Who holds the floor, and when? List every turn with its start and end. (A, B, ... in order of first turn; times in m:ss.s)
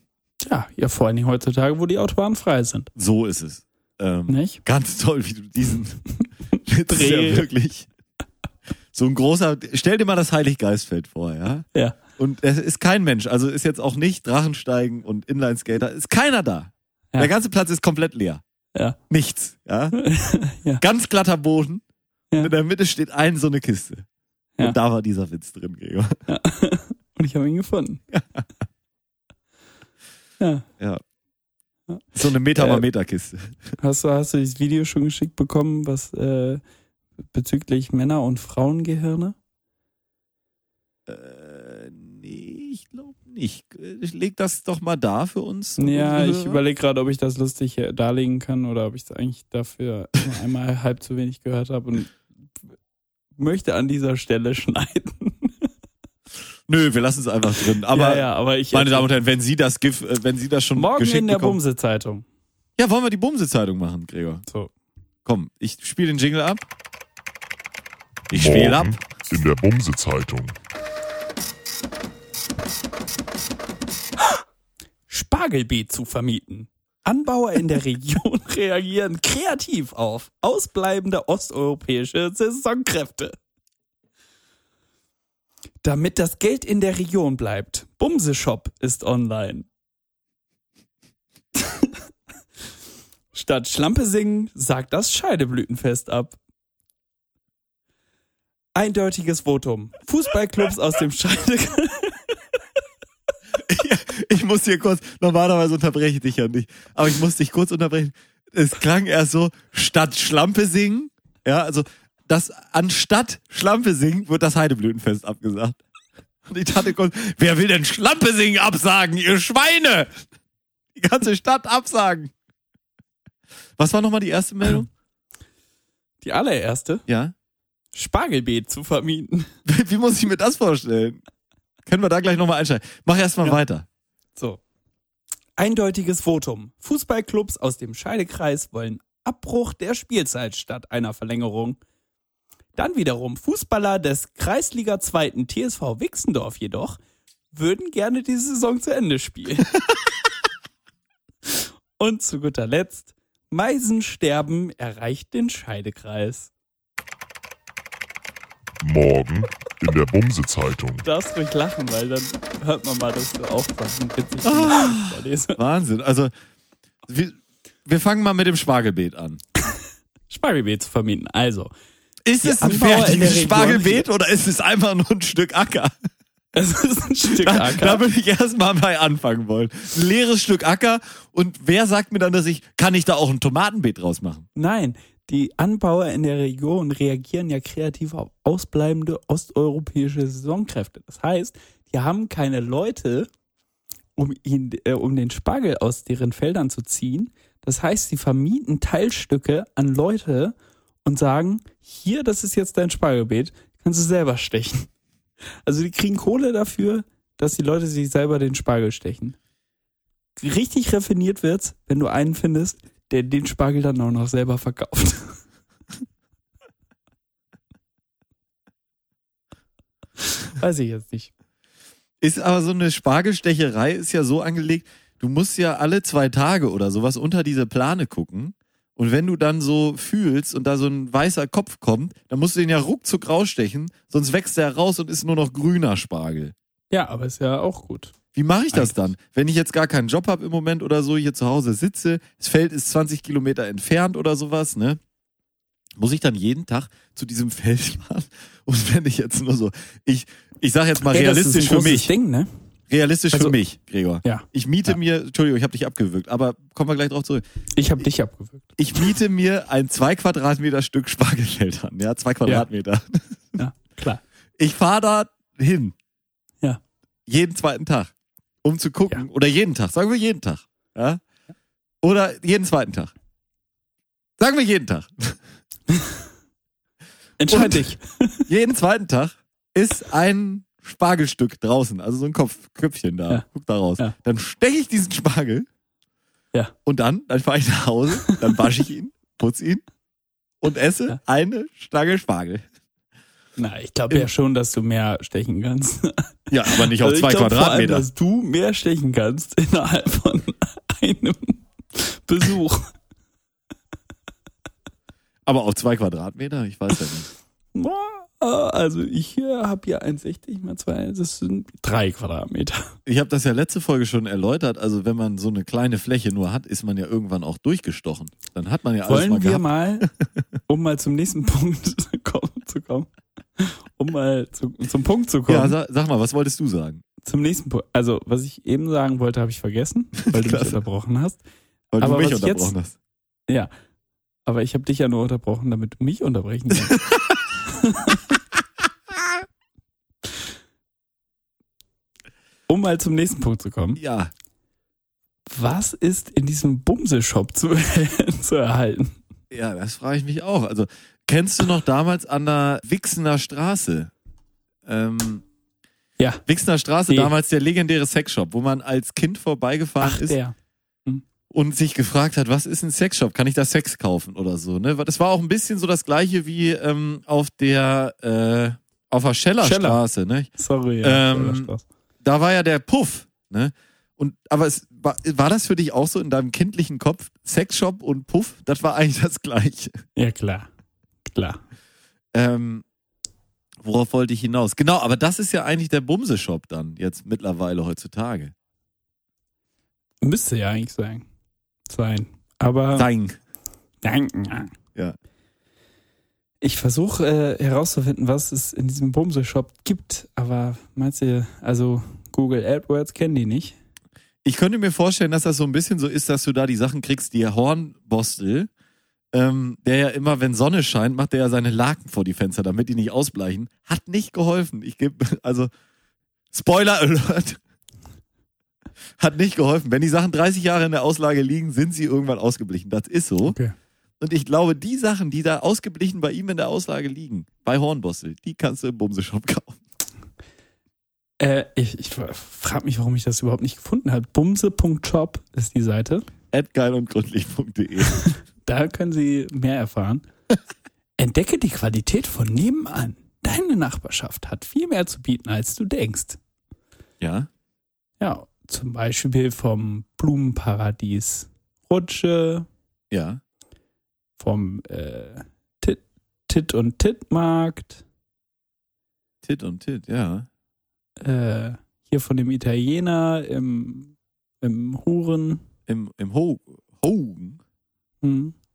0:00.4-0:02.9 A
0:02.9-0:06.0 B
0:04.3-0:04.6 A
0:06.6-0:07.9 B
0:06.9-0:07.4 A
0:08.9-0:18.4 B
0:19.1-0:20.0 B
0:19.9-0:20.8 A
0:20.8-0:21.8 B
0:22.4-0:24.0 B
0:24.6-0:26.1 B
0:26.3-0:28.0 A
0:28.1-0:28.4 B
0:30.4-0:30.6 A
0:32.1-0:33.6 B
0:32.6-0:32.8 A
0:33.8-0:36.6 A
0:37.3-0:39.3 A
0:41.1-0:46.6 B
0:45.8-0:52.1 A
0:53.4-0:55.7 A
0:56.7-1:01.6 B
0:57.9-0:59.1 A
1:00.8-1:02.2 A
1:02.8-1:04.4 B
1:05.2-1:06.6 B
1:08.3-1:09.0 B
1:08.3-1:10.5 C
1:15.1-1:23.4 A
1:25.8-1:29.7 A
1:33.3-1:36.4 A
1:38.7-1:42.3 A
1:43.6-1:55.8 B
1:56.4-2:00.1 B
2:01.0-2:02.3 B
2:03.8-2:04.9 B
2:06.2-2:07.0 A
2:07.1-2:07.3 B
2:07.9-2:09.5 A
2:09.6-2:11.2 B
2:11.8-2:13.8 B
2:15.6-2:21.8 A
2:22.8-2:27.0 A
2:27.5-2:29.7 A
2:32.0-2:36.5 A
2:38.8-2:41.0 C
2:41.0-2:45.6 A
2:44.4-2:46.3 B
2:47.1-2:49.4 B
2:50.3-2:51.7 A
2:52.2-2:56.0 B
2:52.4-2:54.1 A
2:56.5-2:58.0 A
2:57.4-3:04.5 B
3:04.6-3:13.3 A
3:14.2-3:20.5 A
3:21.0-3:24.9 A
3:25.6-3:29.4 A
3:30.4-3:35.4 A
3:40.6-3:41.3 A
3:42.2-3:56.5 B
3:56.9-3:58.1 A
3:58.3-4:05.0 B
3:58.7-3:59.0 A
4:06.0-4:12.1 B
4:11.0-4:12.5 A
4:12.9-4:17.4 B
4:14.2-4:15.0 A
4:17.8-4:19.1 A
4:18.8-4:23.6 B
4:23.6-4:24.2 A
4:24.6-4:25.9 B
4:27.3-4:28.1 B
4:28.6-4:31.2 B
4:32.0-4:33.1 B
4:34.4-4:35.4 B
4:35.9-4:36.1 A
4:37.4-4:38.4 A
4:37.5-4:37.9 B
4:38.5-4:45.7 B
4:46.8-4:49.8 B
4:50.6-4:52.6 B
4:53.6-5:02.9 A
4:56.5-4:58.0 B
5:05.4-5:07.3 B
5:07.7-5:12.9 A
5:13.0-5:20.1 B
5:19.0-5:20.1 A
5:20.7-5:25.7 A
5:25.5-5:27.0 B
5:27.2-5:31.4 A
5:30.2-5:30.8 B
5:31.9-5:33.0 B
5:32.0-5:32.7 A
5:34.4-5:37.0 A
5:36.8-5:37.4 B
5:37.7-5:38.2 A
5:42.7-5:44.0 A
5:44.0-5:44.3 B
5:45.5-5:49.2 A
5:49.5-5:54.1 B
5:54.8-5:55.4 B
5:56.4-6:00.4 B
6:00.0-6:00.5 A
6:01.5-6:10.5 B
6:09.6-6:10.0 A
6:10.6-6:11.8 A
6:11.0-6:11.7 B
6:12.2-6:20.0 B
6:20.2-6:20.7 A
6:21.3-6:21.6 A
6:22.3-6:22.8 B
6:23.8-6:28.5 B
6:30.2-6:31.2 A
6:31.9-6:33.1 A
6:32.9-6:33.4 B
6:34.0-6:34.7 A
6:36.6-6:43.8 A
6:44.4-6:48.7 B
6:49.3-6:55.7 B
6:56.5-6:57.6 B
6:59.2-7:03.6 B
7:03.4-7:03.7 A
7:04.2-7:09.8 B
7:11.4-7:16.2 A
7:16.5-7:18.2 B
7:18.6-7:20.2 A
7:21.2-7:26.4 A
7:27.2-7:27.5 B
7:28.2-7:32.7 A
7:33.1-7:33.4 B
7:34.4-7:38.0 A
7:39.4-7:40.5 B
7:41.2-7:45.6 A
7:45.9-7:47.6 B
7:48.2-7:48.5 A